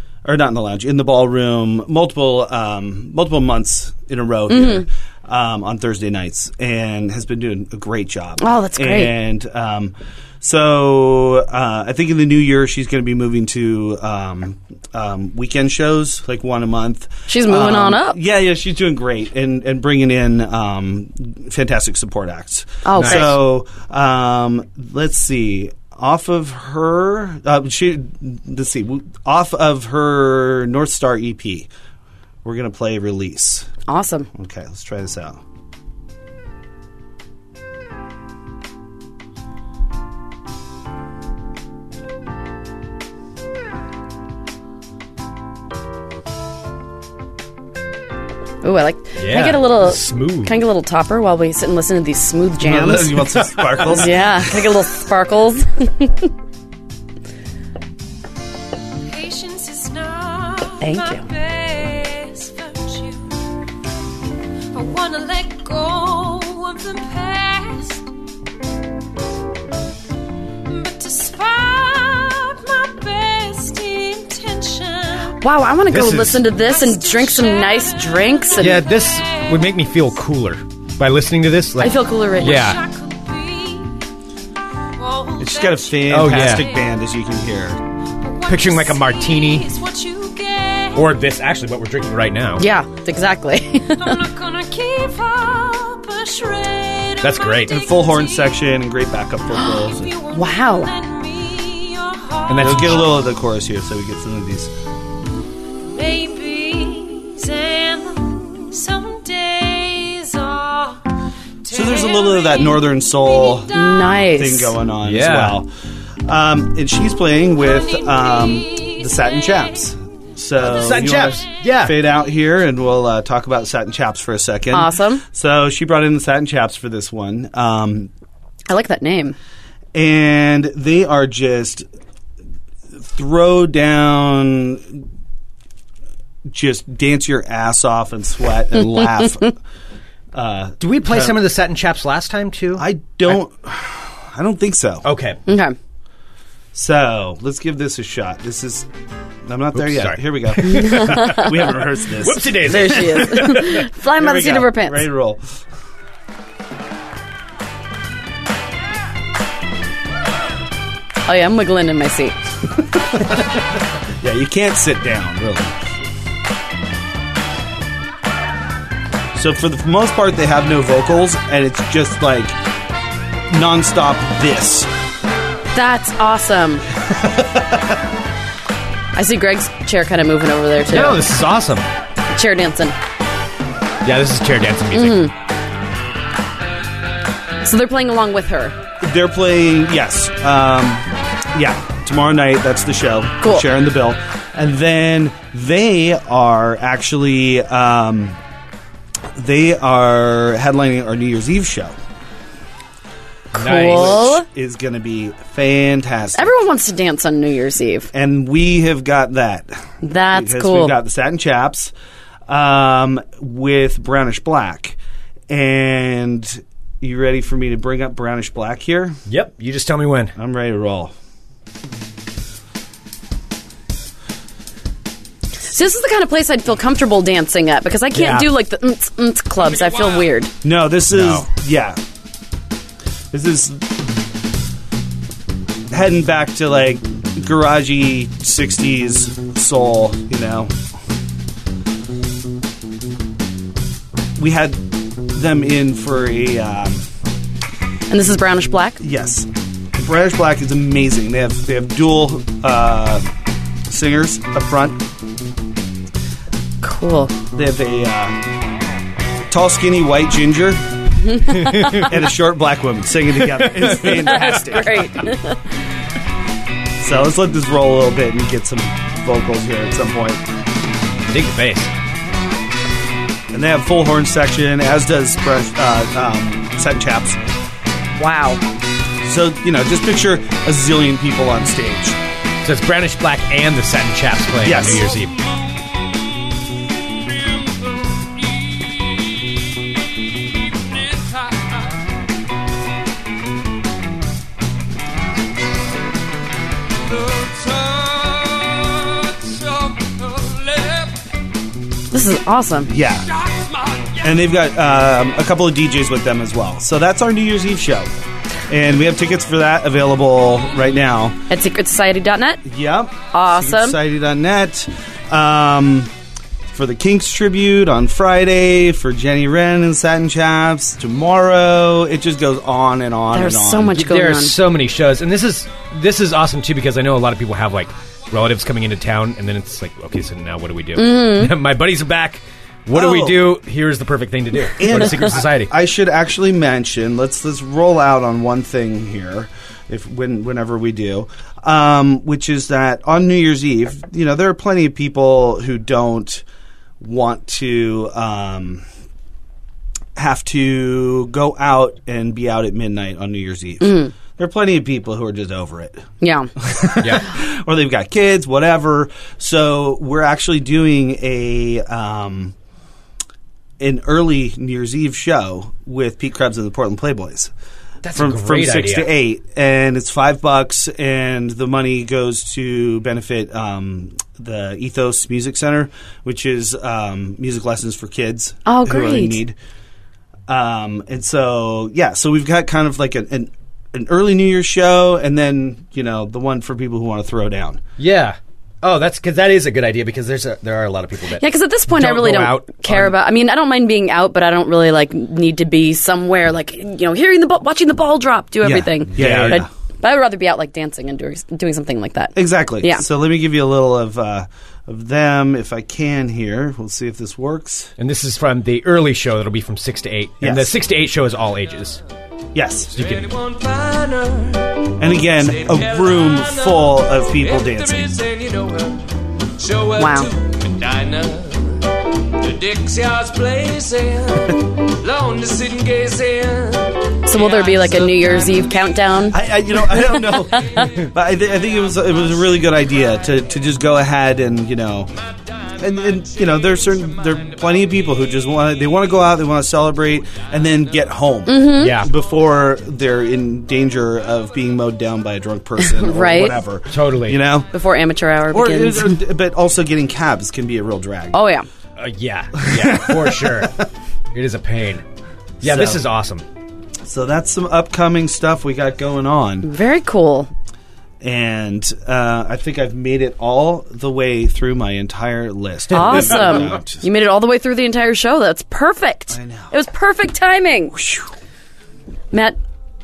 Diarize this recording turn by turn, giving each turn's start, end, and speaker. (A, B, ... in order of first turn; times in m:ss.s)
0:00.2-0:31.7 A
0:04.5-0:04.9 B
0:08.4-0:09.1 B
0:17.3-0:18.2 B
0:22.8-0:23.4 B
0:23.0-0:23.3 C
0:32.4-0:33.7 A
0:33.9-0:34.3 B
0:34.4-0:35.4 A
0:48.6-0:53.2 B
0:49.2-0:50.6 C
0:52.6-0:54.5 A
0:53.3-0:53.9 C
0:53.9-0:56.3 B
0:59.0-1:03.4 D
1:00.8-1:01.3 B
1:04.7-1:08.1 D
1:10.7-1:15.4 D
1:15.4-1:18.9 B
1:15.9-1:16.5 C
1:16.5-1:20.0 D
1:18.6-1:22.8 C
1:21.8-1:22.7 B
1:22.2-1:24.0 D
1:25.0-1:26.9 D
1:25.4-1:27.8 A
1:26.1-1:26.7 C
1:28.2-1:31.2 D
1:28.5-1:29.7 C
1:30.9-1:32.7 C
1:32.6-1:34.2 B
1:34.0-1:38.7 D
1:37.2-1:37.8 C
1:37.7-1:40.1 A
1:39.8-1:43.2 D
1:40.3-1:40.9 B
1:42.5-1:43.2 C
1:42.6-1:44.7 A
1:45.9-1:51.1 D
1:51.6-1:54.3 D
1:51.7-1:53.8 A
1:53.7-1:54.8 B
1:54.3-1:55.7 A
1:55.0-1:55.6 C
1:56.3-2:08.1 A
1:57.6-1:59.7 D
2:00.6-2:02.0 C
2:04.7-2:05.2 B
2:08.7-2:09.4 B
2:09.9-2:11.8 A
2:13.0-2:15.0 A
2:16.5-2:19.6 A
2:18.9-2:19.5 B
2:20.3-2:21.4 A
2:20.8-2:23.4 C
2:22.8-2:25.1 A
2:25.0-2:25.4 C
2:25.5-2:25.8 B
2:26.7-2:28.9 A
2:29.5-2:35.4 A
2:29.8-2:33.9 C
2:30.6-2:31.5 B
2:32.6-2:35.1 B
2:41.3-2:42.4 B
2:44.2-2:45.7 A
2:49.3-2:52.6 A
2:53.5-2:54.9 A
2:55.7-2:56.8 B
2:59.2-3:01.2 B
3:00.9-3:01.9 C
3:02.3-3:03.0 B
3:04.0-3:05.3 C
3:04.9-3:05.3 B
3:07.6-3:08.8 B
3:09.0-3:18.4 A
3:19.4-3:22.0 A
3:23.5-3:24.5 B
3:23.5-3:24.3 C
3:23.9-3:26.5 A
3:26.4-3:28.1 B
3:28.1-3:29.7 A
3:30.0-3:31.0 B
3:30.3-3:31.9 A
3:32.5-3:35.0 A
3:35.5-3:39.2 A
3:39.3-3:40.3 C
3:40.4-3:41.1 A
3:45.6-3:50.5 B
3:48.1-3:48.5 C
3:49.6-3:50.3 D
3:50.6-3:52.0 A
3:51.1-3:51.5 C
3:53.3-3:53.8 A
3:55.9-4:00.7 A
4:04.4-4:07.0 A
4:08.1-4:09.0 B
4:09.0-4:13.3 A
4:13.9-4:15.0 A
4:16.8-4:17.3 B
4:17.5-4:18.4 A
4:19.5-4:20.8 A
4:21.2-4:22.1 B
4:21.7-4:25.1 A
4:24.0-4:25.6 B
4:27.0-4:30.4 A
4:31.3-4:31.9 C
4:33.5-4:37.4 A
4:38.2-4:38.6 B
4:39.2-4:42.2 A
4:42.6-4:45.4 C
4:44.6-4:45.1 A
5:02.1-5:02.9 B
5:02.9-5:03.3 A
5:04.2-5:08.1 A
5:08.7-5:11.4 A
5:11.5-5:12.6 B
5:12.6-5:16.1 A
5:13.3-5:14.0 B
5:16.7-5:24.0 A
5:23.3-5:24.6 B
5:23.9-5:35.7 C
5:31.0-5:31.5 B
5:32.9-5:33.4 A
5:34.8-5:46.4 A
5:47.0-5:48.8 A
5:50.2-5:56.0 A
5:53.8-5:54.1 B
5:56.2-5:56.5 B
5:56.6-6:02.5 A
5:57.0-5:57.3 C
6:03.8-6:07.5 A
6:08.0-6:09.1 C
6:08.2-6:19.6 A
6:18.7-6:19.4 B
6:20.5-6:27.8 A
6:28.0-6:33.2 C
6:31.4-6:43.0 B
6:38.6-6:39.7 A
6:39.2-6:39.7 C
6:42.4-6:47.9 A
6:48.0-6:52.0 C
6:50.4-6:50.7 A
6:52.5-6:52.9 A
6:52.9-6:53.4 C
6:53.6-6:54.8 D
6:55.0-6:58.2 A
6:58.3-6:58.8 D
6:59.6-7:01.5 D
6:59.9-7:00.3 B
7:02.4-7:04.5 D
7:05.0-7:07.0 D
7:07.2-7:09.4 B
7:07.5-7:07.8 D
7:09.3-7:15.1 A
7:10.0-7:10.9 B
7:15.8-7:27.7 A
7:21.5-7:22.0 B
7:21.8-7:22.1 C
7:25.8-7:26.6 B
7:26.9-7:27.4 C
7:27.7-7:29.2 B
7:28.5-7:31.4 A
7:31.3-7:31.7 B
7:32.0-7:33.8 C
7:32.6-7:33.6 A
7:34.3-7:35.0 C
7:35.6-7:36.4 C
7:35.6-7:36.0 A
7:37.0-7:39.7 A
7:39.6-7:40.5 B
7:41.2-7:47.0 A
7:45.9-7:51.0 B
7:46.0-7:46.8 C
7:49.3-7:49.7 A
7:50.9-7:51.3 A
7:52.3-7:52.6 B